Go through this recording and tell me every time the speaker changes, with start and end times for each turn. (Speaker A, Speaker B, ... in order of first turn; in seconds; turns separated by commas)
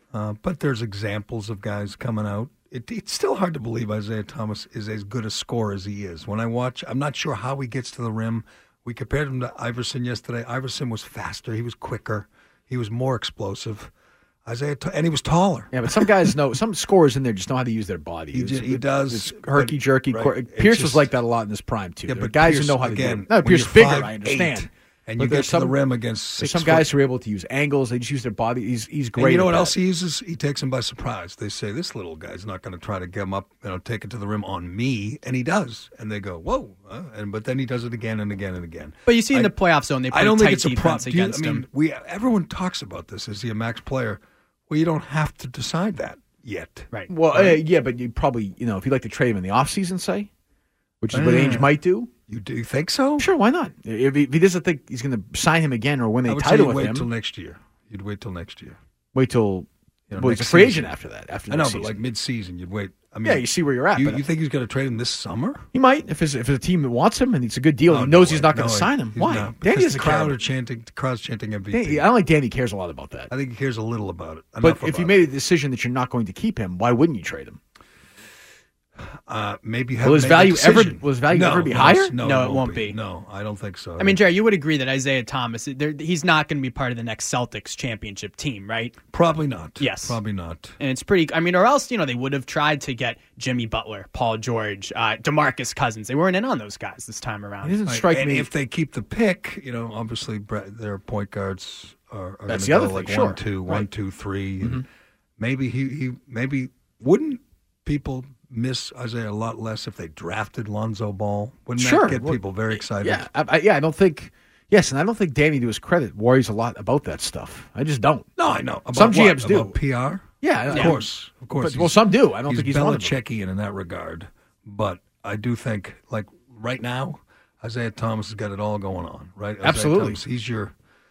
Speaker A: 0.1-13.9, Speaker A: 14.4-15.7, Speaker B: 15.7-25.8, Speaker A: 18.3-21.1, Speaker A: 22.1-26.9, Speaker B: 26.4-29.8, Speaker A: 29.1-39.5, Speaker C: 39.0-41.6, Speaker A: 40.1-47.6, Speaker B: 47.1-50.3, Speaker B: 51.0-52.1, Speaker A: 51.1-51.7, Speaker A: 52.3-53.3, Speaker B: 53.2-57.1, Speaker A: 56.2-58.8, Speaker B: 59.1-62.0, Speaker A: 60.1-60.9, Speaker A: 61.5-65.7, Speaker B: 63.2-64.2, Speaker B: 65.7-70.4, Speaker A: 67.8-72.0, Speaker B: 71.7-73.3, Speaker A: 73.3-75.2, Speaker B: 74.6-77.6, Speaker A: 79.3-84.2, Speaker B: 80.0-82.2, Speaker C: 82.2-83.0, Speaker C: 84.0-88.9, Speaker A: 89.1-90.8, Speaker C: 89.8-90.2, Speaker C: 90.8-97.8, Speaker B: 97.6-98.5, Speaker A: 97.8-104.8, Speaker B: 102.5-103.9, Speaker A: 105.4-113.2, Speaker B: 111.8-119.8, Speaker A: 118.4-130.7, Speaker B: 120.4-123.2, Speaker B: 129.6-130.2